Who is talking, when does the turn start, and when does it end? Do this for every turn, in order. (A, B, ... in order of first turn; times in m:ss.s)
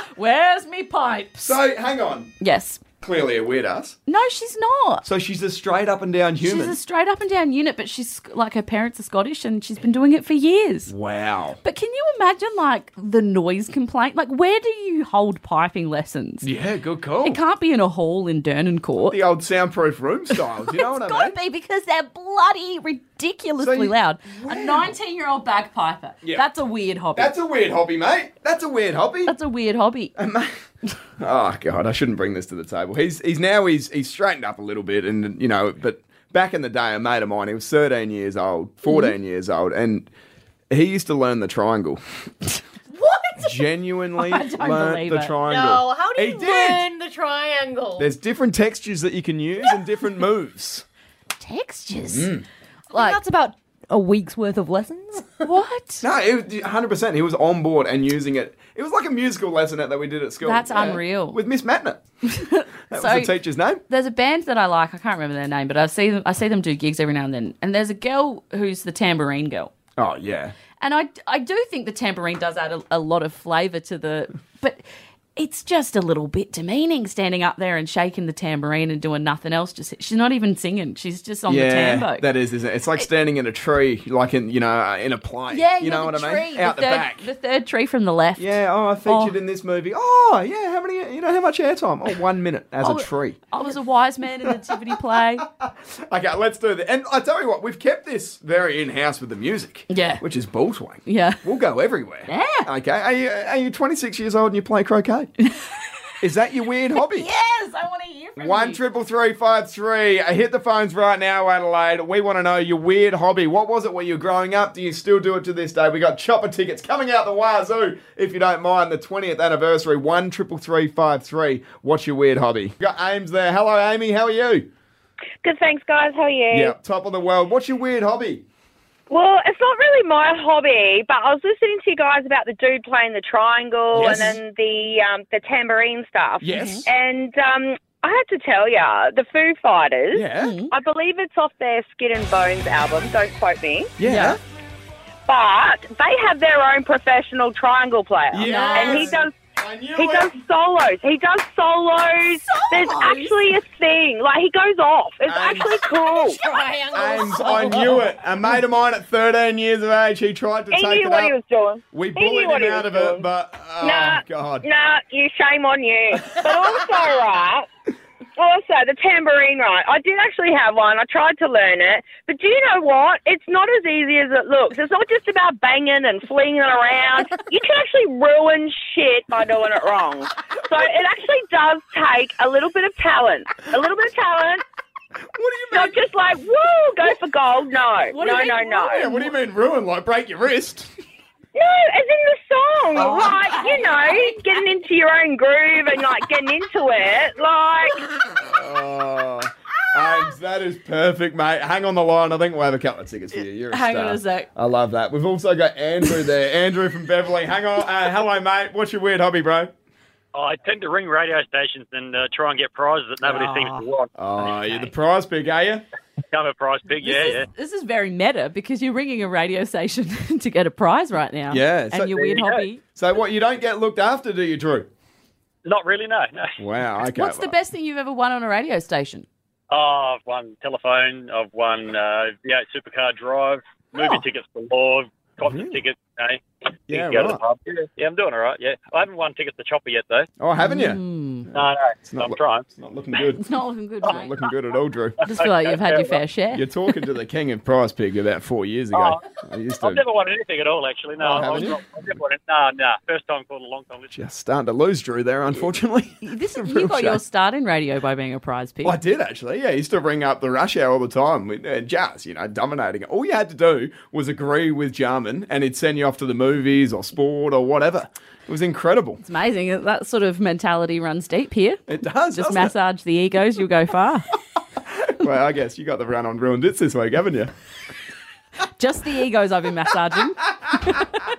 0:00.1-0:01.6 A
0:01.4-0:02.3 B
0:02.4-0:02.8 A
0:03.0-0:04.0 B
0:04.1-0:05.0 A
0:05.0-0:06.8 B
0:06.4-0:10.9 A
0:10.9-0:11.6 B
0:11.6-0:16.5 A
0:16.4-0:17.4 B
0:17.2-0:19.2 A
0:19.1-0:21.4 B
0:20.6-0:27.3 A
0:23.6-0:24.9 B
0:26.2-0:26.5 B
0:27.1-0:29.3 B
0:29.3-0:30.1 A
0:30.2-0:30.6 B
0:31.2-0:40.1 B
0:38.8-0:39.1 A
0:40.7-0:42.0 B
0:42.9-0:43.5 C
0:43.4-0:46.8 B
0:44.2-0:45.3 A
0:45.4-0:48.1 C
0:48.0-0:50.8 B
0:51.4-0:52.3 A
0:52.1-0:52.4 B
0:52.9-0:53.2 A
0:52.9-0:55.5 C
0:55.4-0:56.0 A
0:56.0-1:02.0 B
1:00.4-1:01.4 A
1:02.2-1:03.3 A
1:02.9-1:03.8 B
1:03.8-1:09.7 A
1:10.0-1:10.5 B
1:10.8-1:14.8 A
1:15.4-1:22.3 A
1:21.5-1:27.3 B
1:25.5-1:29.4 A
1:28.4-1:33.4 B
1:32.8-1:35.5 A
1:34.4-1:45.3 B
1:39.9-1:40.2 A
1:41.0-1:41.4 A
1:42.2-1:42.7 A
1:45.4-1:45.7 A
1:46.2-1:47.3 B
1:46.9-1:48.8 A
1:48.4-2:04.7 B
2:05.4-2:06.7 D
2:06.5-2:08.4 B
2:09.1-2:23.9 D
2:13.9-2:14.4 B
2:16.4-2:16.9 B
2:16.5-2:16.8 A
2:20.1-2:20.6 B
2:20.4-2:20.7 A
2:24.0-2:24.4 B
2:24.0-2:24.4 A
2:25.2-2:29.3 D
2:28.3-2:30.4 B
2:28.4-2:29.2 A
2:30.0-2:36.4 D
2:32.4-2:33.6 A
2:35.2-2:35.9 B
2:36.1-2:38.1 A
2:36.9-2:41.3 B
2:40.7-2:43.2 D
2:41.9-2:44.6 B
2:43.8-2:47.7 D
2:46.3-2:46.7 B
2:48.4-3:04.6 D
3:05.3-3:06.0 B
3:05.7-3:09.1 D
3:08.1-3:09.3 A
3:08.2-3:10.9 B
3:11.5-3:18.1 D
3:12.9-3:14.6 A
3:18.4-3:29.7 B
3:23.6-3:24.5 A
3:30.3-3:34.1 E
3:33.2-3:33.8 A
3:34.2-3:35.8 B
3:34.4-3:34.9 A
3:36.3-3:37.5 E
3:37.0-3:42.8 A
3:41.5-3:42.4 B
3:42.2-3:42.6 E
3:42.9-3:44.9 B
3:45.6-3:46.6 E
3:46.6-3:47.5 B
3:47.1-3:49.2 A
3:49.7-4:00.3 E
3:54.0-3:54.2 A
3:55.4-3:55.8 B
3:56.9-3:57.4 B
4:00.4-4:01.0 B
4:00.6-4:01.5 A
4:01.5-4:02.7 E
4:01.5-4:03.4 B
4:03.3-4:04.3 A
4:04.0-4:05.2 B
4:05.2-4:06.2 E
4:05.2-4:06.7 A
4:06.5-4:10.0 B
4:08.9-4:14.1 E
4:11.2-4:11.8 B
4:14.1-4:17.2 B
4:16.2-4:19.0 A
4:18.8-4:29.2 B
4:29.2-4:34.3 A
4:31.9-4:32.7 B
4:34.9-4:37.5 B
4:38.8-4:41.1 A